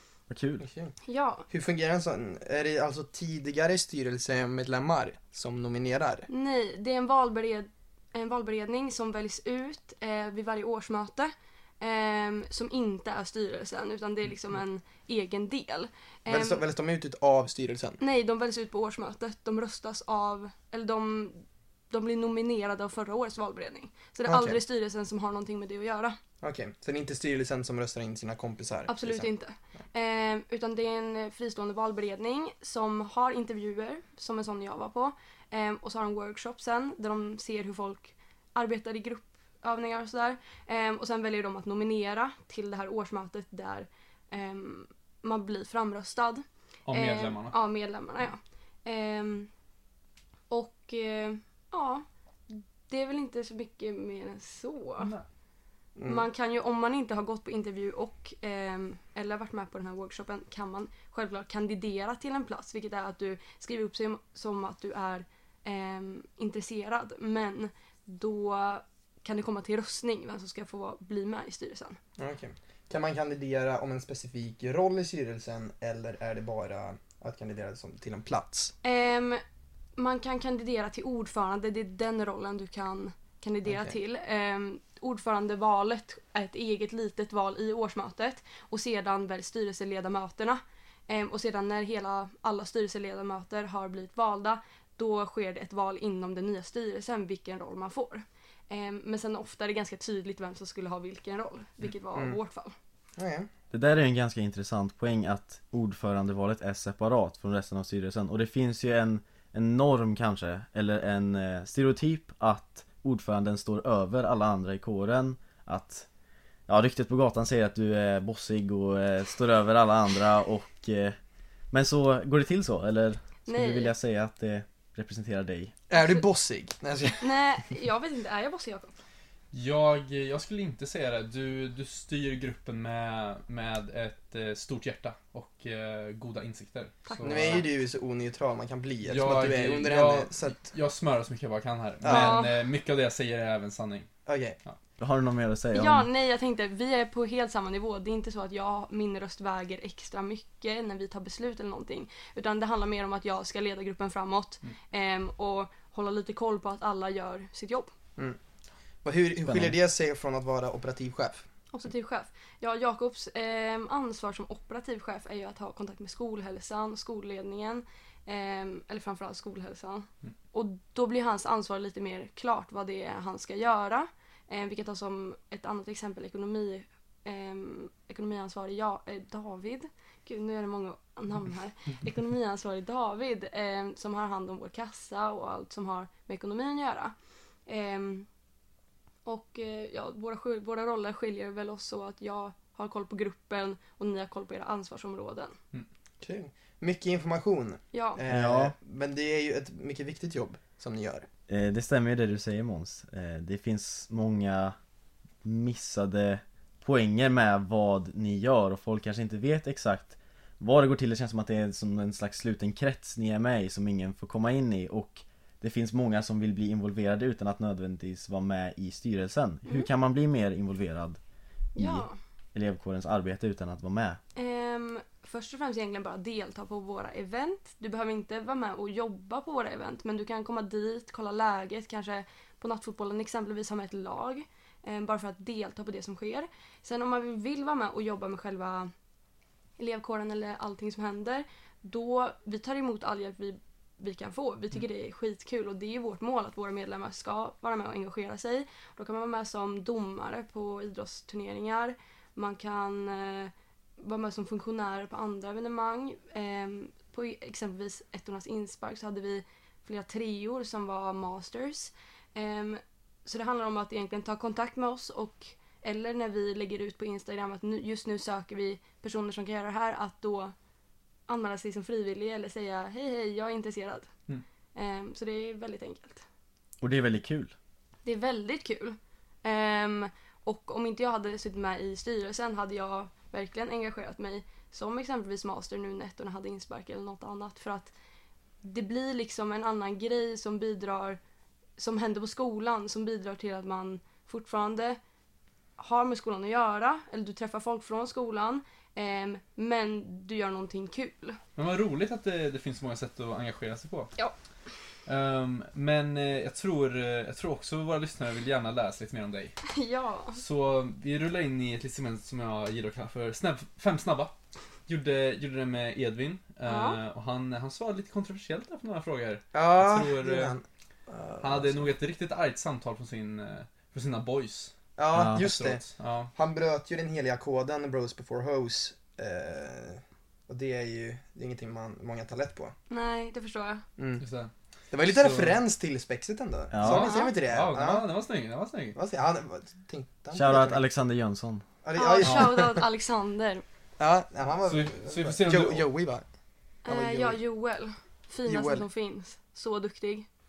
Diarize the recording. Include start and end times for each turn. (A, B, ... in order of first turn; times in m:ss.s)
0:00.3-0:00.6 A
0:00.6-0:00.9 B
0:01.0-0:01.5 C
0:01.5-0:06.3 B
0:06.3-0:16.6 C
0:16.3-0:18.0 B
0:18.0-0:26.2 C
0:24.3-0:24.6 B
0:26.4-0:29.3 B
0:28.9-0:49.5 C
0:46.9-0:47.6 D
0:50.5-0:55.1 C
0:55.0-0:55.2 D
0:56.0-0:56.3 B
0:56.0-1:12.0 C
1:12.2-1:18.7 B
1:18.8-1:19.4 C
1:20.0-1:42.8 C
1:23.7-1:23.9 B
1:43.2-1:43.5 B
1:43.7-1:56.1 A
1:56.7-2:01.2 A
2:01.7-2:05.7 A
2:03.5-2:03.9 C
2:05.9-2:07.5 B
2:05.9-2:06.2 C
2:07.2-2:08.9 C
2:09.5-2:17.6 D
2:17.1-2:17.7 C
2:17.2-2:20.6 B
2:19.0-2:24.1 D
2:22.0-2:22.4 B
2:22.0-2:22.6 C
2:24.3-2:24.6 B
2:25.0-2:26.1 A
2:25.7-2:37.9 C
2:39.0-2:41.4 B
2:39.4-2:39.8 A
2:41.7-3:07.1 C
3:07.7-3:08.3 C
3:09.2-3:15.6 C
3:16.2-3:21.3 B
3:17.9-3:18.2 C
3:18.3-3:18.7 A
3:21.5-3:24.8 A
3:25.4-3:41.2 A
3:41.8-3:42.2 C
3:41.8-3:44.2 A
3:44.4-3:58.9 C
3:59.8-4:30.5 C
4:31.3-4:34.1 C
4:34.8-4:36.2 C
4:36.8-4:37.5 A
4:38.0-4:47.9 C
4:48.6-4:51.2 C
4:51.8-4:55.0 C
4:55.8-5:01.4 C
5:01.6-5:04.1 D
5:05.1-5:09.6 D
5:09.7-5:10.4 C
5:10.4-5:14.3 D
5:14.9-5:20.6 D
5:16.6-5:17.0 C
5:19.5-5:21.9 B
5:21.4-5:24.7 D
5:25.0-5:25.8 B
5:25.1-5:25.4 A
5:25.3-5:26.3 D
5:26.4-5:32.8 B
5:32.9-5:33.8 C
5:34.0-5:34.2 B
5:34.2-5:34.5 D
5:34.9-5:38.0 B
5:35.0-5:35.6 D
5:36.7-5:37.1 A
5:36.8-5:39.0 D
5:36.9-5:37.3 C
5:39.0-5:40.8 B
5:40.3-5:41.6 A
5:41.8-5:42.8 B
5:42.0-5:43.6 C
5:42.2-5:42.5 D
5:44.0-5:46.2 B
5:44.7-5:45.9 D
5:46.8-5:50.3 C
5:46.9-5:47.4 B
5:48.5-5:48.9 B